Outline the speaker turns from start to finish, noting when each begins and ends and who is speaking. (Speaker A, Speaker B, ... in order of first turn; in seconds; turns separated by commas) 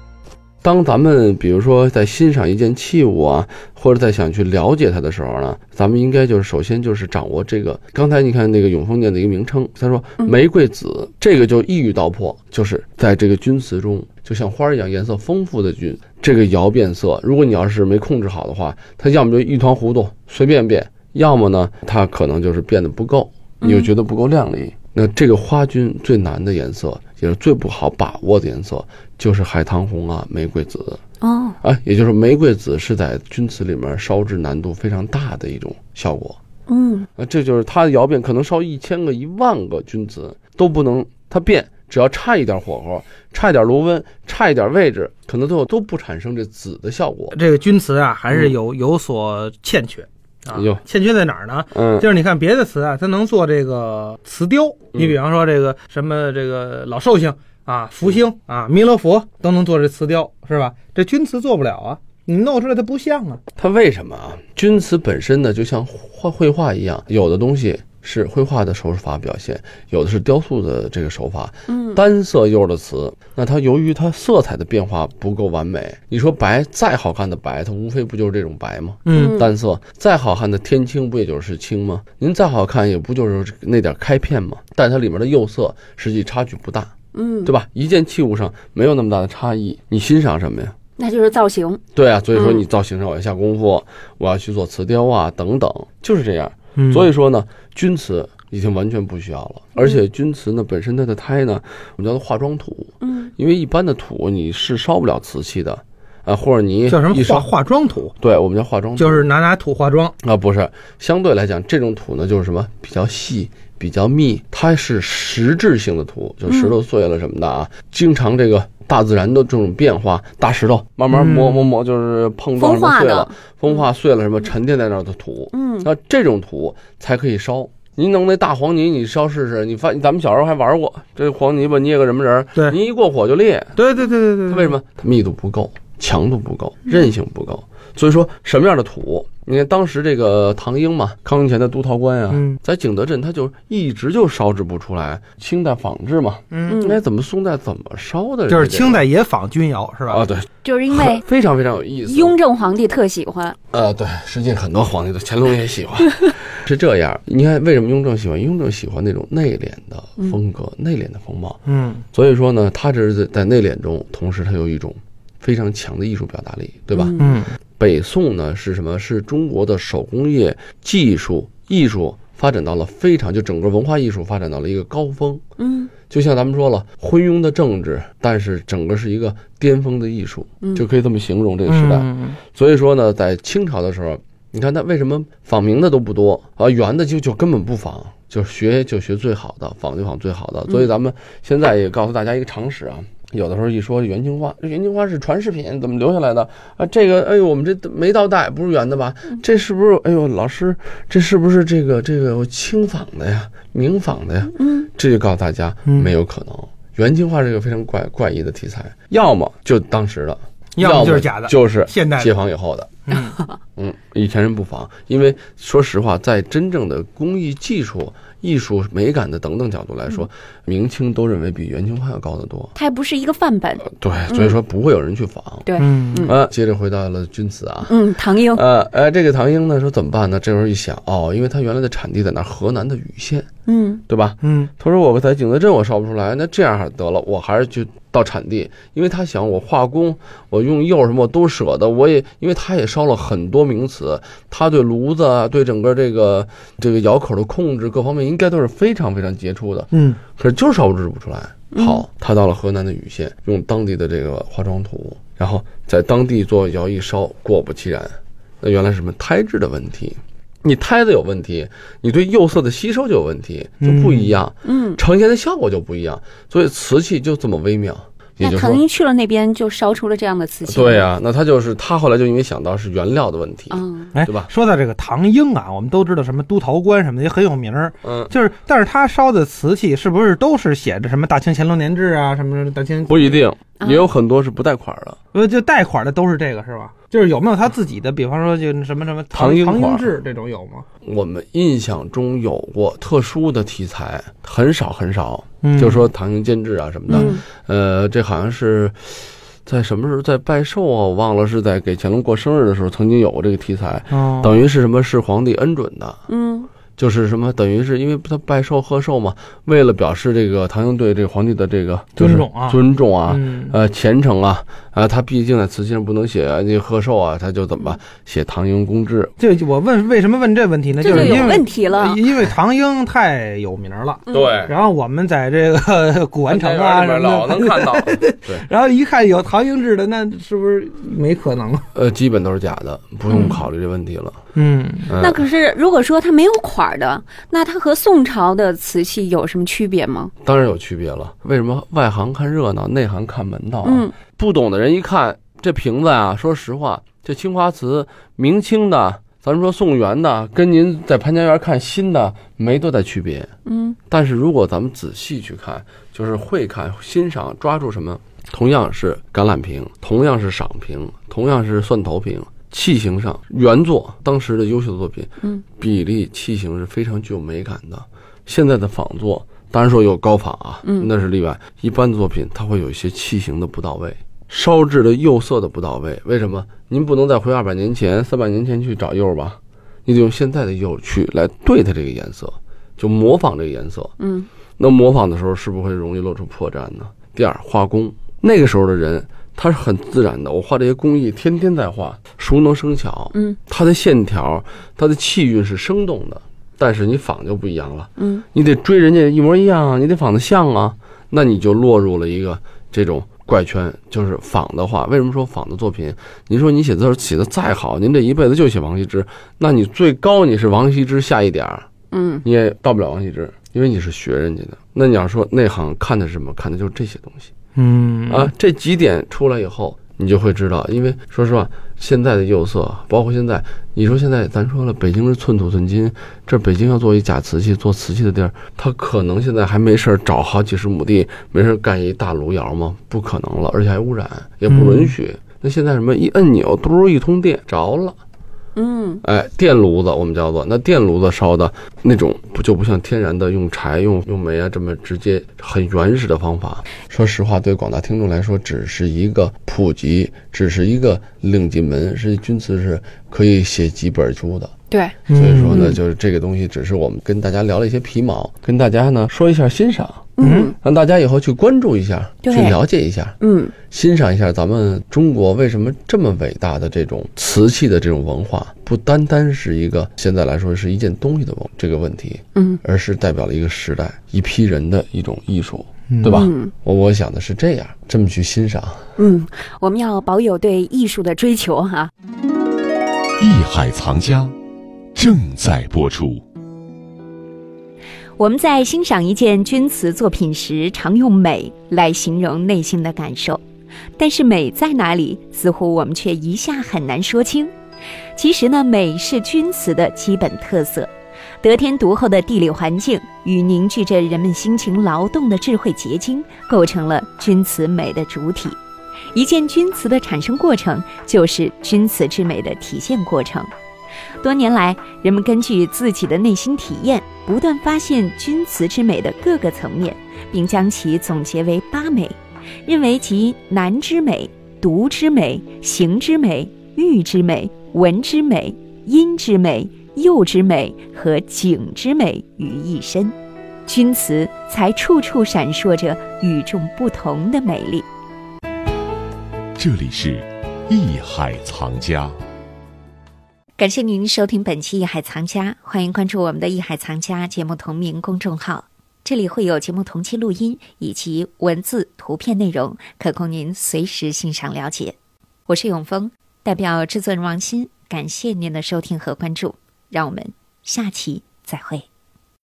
Speaker A: 0.6-31.0, Speaker B: 31.2-31.6, Speaker A: 31.6-36.4, Speaker B: 36.7-37.1, Speaker A: 37.1-47.4, Speaker C: 47.3-63.4, Speaker A: 50.5-50.8, Speaker A: 51.7-52.1, Speaker A: 63.6-86.9, Speaker C: 79.1-79.4, Speaker B: 79.1-79.4, Speaker B: 87.2-87.5, Speaker A: 87.4-90.7, Speaker B: 91.0-91.8, Speaker A: 91.9-107.5, Speaker C: 96.8-97.1, Speaker C: 106.9-108.1, Speaker A: 108.2-109.3, Speaker C: 109.0-110.1, Speaker A: 110.2-133.8, Speaker C: 121.1-121.5, Speaker B: 122.6-123.3, Speaker C: 133.8-134.7, Speaker A: 134.5-149.1, Speaker C: 142.3-142.6, Speaker C: 146.5-146.8, Speaker B: 146.7-147.0, Speaker C: 148.5-150.2, Speaker A: 150.1-152.4, Speaker B: 150.6-151.2, Speaker B: 152.1-153.6, Speaker A: 153.7-161.6, Speaker A: 162.1-167.2, Speaker B: 167.0-167.2, Speaker C: 167.2-167.5, Speaker A: 167.8-175.4, Speaker B: 175.6-175.9, Speaker A: 176.0-212.9, Speaker C: 181.7-182.4, Speaker C: 210.8-212.3, Speaker C: 213.1-213.4, Speaker A: 213.8-222.7, Speaker B: 222.8-224.5, Speaker A: 223.8-233.5, Speaker B: 225.6-226.3, Speaker C: 225.8-226.2, Speaker B: 227.9-228.6, Speaker B: 233.7-234.0, Speaker A: 234.1-268.8, Speaker C: 234.4-234.7, Speaker C: 263.8-264.3, Speaker B: 268.4-271.1, Speaker A: 270.6-274.5, Speaker B: 273.7-274.2, Speaker C: 274.1-283.4, Speaker A: 278.0-278.3, Speaker A: 283.1-285.2, Speaker C: 285.3-290.8, Speaker A: 289.3-290.1, Speaker A: 291.0-306.2, Speaker C: 295.6-296.1, Speaker B: 297.1-297.4, Speaker C: 304.1-304.5, Speaker B: 306.3-306.7, Speaker A: 306.9-319.3, Speaker C: 312.2-313.8, Speaker C: 319.4-331.8, Speaker B: 321.0-322.2, Speaker A: 321.1-321.6, Speaker A: 324.3-324.7, Speaker A: 326.5-328.6, Speaker A: 331.9-334.4, Speaker B: 333.3-333.6, Speaker C: 334.6-335.1, Speaker A: 335.1-335.5, Speaker B: 335.2-340.3, Speaker A: 340.4-353.5, Speaker B: 343.8-344.1, Speaker A: 354.1-384.1, Speaker B: 384.2-384.5, Speaker A: 384.8-411.9, Speaker B: 398.2-398.4, Speaker B: 412.1-412.4, Speaker A: 412.4-417.5, Speaker C: 417.8-418.5, Speaker A: 418.3-438.2, Speaker C: 434.7-435.1, Speaker B: 438.8-439.2, Speaker A: 439.2-454.7, Speaker B: 454.9-456.0, Speaker C: 455.3-455.7, Speaker A: 455.3-479.1, Speaker B: 460.4-460.7, Speaker C: 460.4-460.7, Speaker B: 462.5-462.8, Speaker B: 463.4-463.7, Speaker B: 476.3-476.7, Speaker B: 479.2-482.1, Speaker D: 483.4-484.6, Speaker D: 485.1-486.4, Speaker E: 488.4-493.6, Speaker E: 494.2-497.7, Speaker E: 498.4-501.1, Speaker E: 501.6-508.8, Speaker E: 509.3-513.7, Speaker E: 514.4-533.3, Speaker E: 533.9-538.1, Speaker D: 539.8-542.4, Speaker E: 543.8-555.1, Speaker E: 555.7-562.0